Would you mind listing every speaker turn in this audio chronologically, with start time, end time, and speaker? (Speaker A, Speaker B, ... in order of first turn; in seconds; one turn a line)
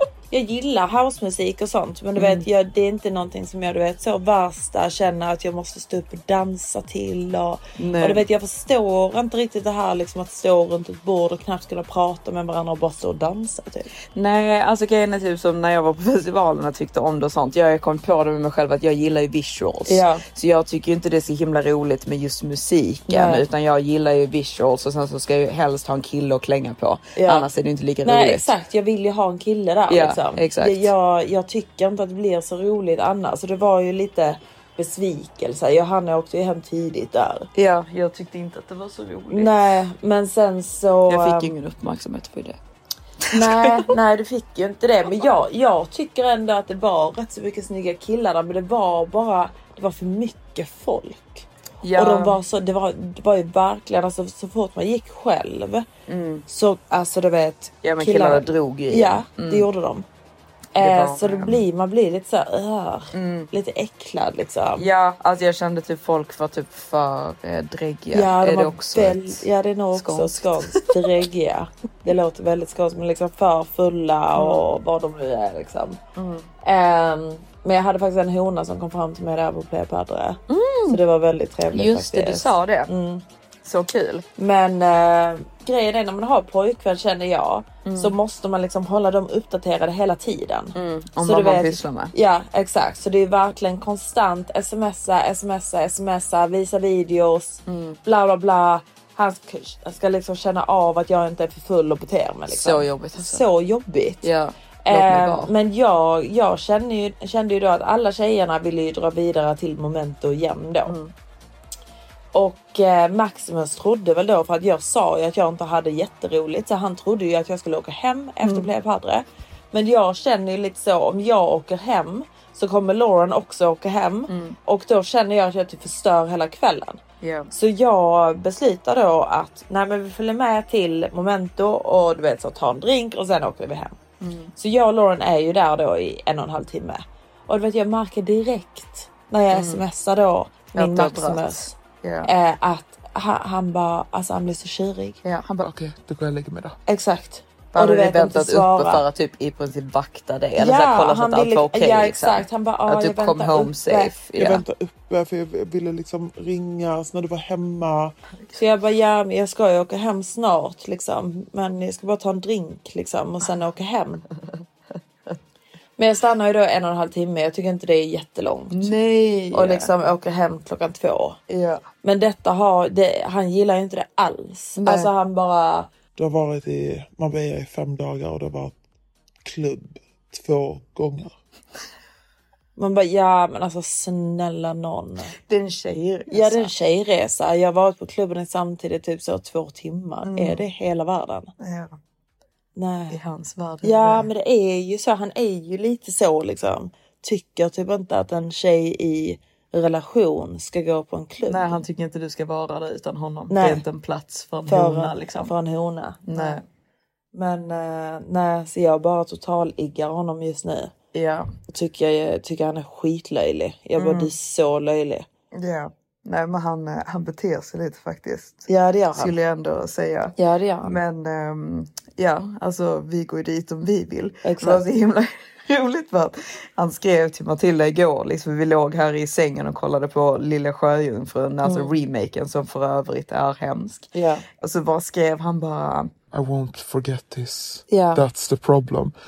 Speaker A: 0.3-13.9
Speaker B: 2.1-2.5
Speaker B: 7.8-8.2
Speaker B: 14.1-28.5
Speaker A: 19.9-20.2
Speaker A: 23.1-23.4
Speaker A: 27.1-27.5
Speaker A: 28.0-37.5
Speaker B: 29.9-30.9
Speaker B: 37.5-39.6
Speaker A: 39.3-41.5
Speaker B: 41.1-42.6
Speaker B: 43.2-43.9
Speaker A: 43.3-55.9
Speaker B: 51.8-52.4
Speaker B: 56.1-56.4
Speaker A: 56.5-60.0
Speaker B: 57.8-59.7
Speaker A: 60.8-64.9
Speaker B: 60.8-61.6
Speaker B: 63.1-63.5
Speaker B: 64.8-70.9
Speaker A: 68.1-76.0
Speaker B: 74.3-74.6
Speaker B: 76.1-76.5
Speaker A: 76.6-83.2
Speaker B: 80.5-81.0
Speaker B: 81.7-82.9
Speaker B: 83.6-84.2
Speaker A: 84.4-104.3
Speaker B: 87.8-88.1
Speaker B: 90.7-92.1
Speaker B: 97.7-98.0
Speaker B: 102.5-103.4
Speaker B: 104.2-105.5
Speaker A: 104.8-111.0
Speaker B: 110.9-111.1
Speaker A: 112.3-127.0
Speaker B: 118.4-118.7
Speaker B: 124.3-124.5
Speaker B: 127.2-127.5
Speaker A: 127.5-134.0
Speaker B: 134.2-134.5
Speaker A: 134.6-141.7
Speaker B: 139.5-139.8
Speaker B: 140.7-142.3
Speaker A: 142.2-145.2
Speaker B: 145.2-145.7
Speaker C: 145.6-146.8
Speaker A: 146.9-149.0
Speaker B: 147.7-154.6
Speaker A: 150.6-154.2
Speaker C: 154.4-158.2
Speaker A: 158.5-164.2
Speaker A: 166.0-168.9
Speaker B: 168.7-169.9
Speaker A: 169.5-171.4
Speaker B: 171.5-171.8
Speaker A: 172.0-175.9
Speaker B: 174.8-175.1
Speaker C: 176.2-178.8
Speaker C: 179.4-181.4
Speaker A: 182.8-185.3
Speaker B: 185.4-186.7
Speaker A: 186.3-191.5
Speaker B: 190.2-190.6
Speaker B: 191.6-192.0
Speaker A: 192.8-193.2
Speaker B: 193.1-194.3
Speaker A: 193.8-201.8
Speaker B: 201.5-205.5
Speaker A: 203.5-203.8
Speaker A: 204.7-206.6
Speaker B: 206.2-206.6
Speaker A: 207.3-210.9
Speaker B: 211.1-211.5
Speaker A: 211.7-215.2
Speaker B: 213.9-214.3
Speaker B: 215.5-236.1
Speaker A: 218.7-219.3
Speaker A: 220.4-221.0
Speaker A: 224.4-224.8
Speaker A: 231.6-231.9
Speaker A: 234.1-234.4
Speaker C: 236.3-239.1
Speaker A: 237.9-238.2